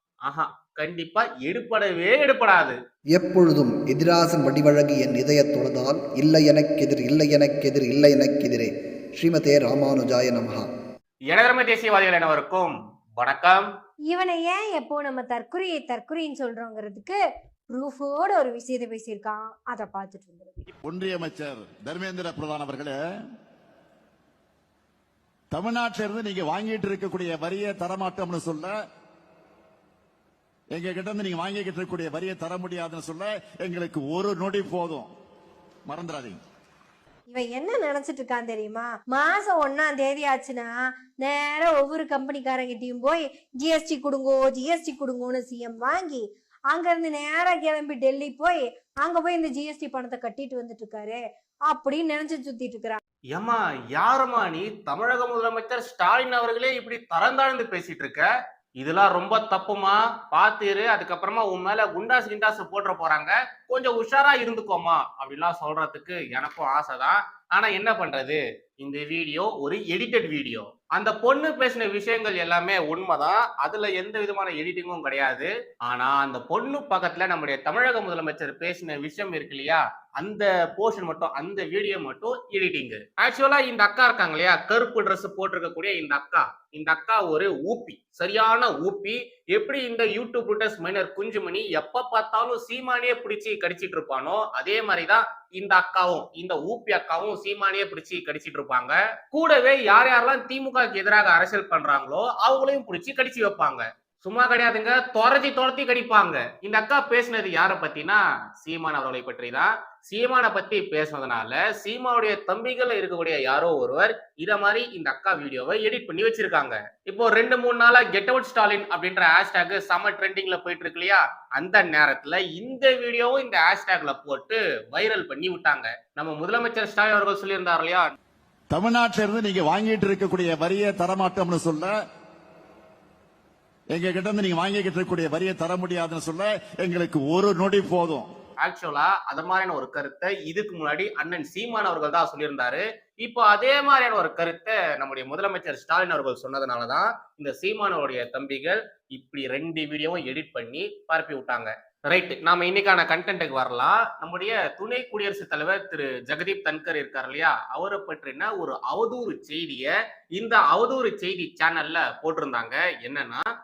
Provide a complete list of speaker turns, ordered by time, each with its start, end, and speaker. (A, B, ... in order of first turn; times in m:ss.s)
0:00.3-0:02.8 A
0:03.2-0:10.7 B
0:11.3-0:13.7 A
0:14.1-0:17.2 C
0:17.7-0:20.5 C
0:20.8-0:23.0 D
0:25.5-0:28.7 D
0:30.7-0:35.1 D
0:35.9-0:36.4 D
0:37.3-0:53.0 C
0:53.3-0:58.3 A
0:58.8-2:08.1 A
2:08.7-2:11.9 D
2:13.9-2:18.2 D
2:18.6-2:43.4 A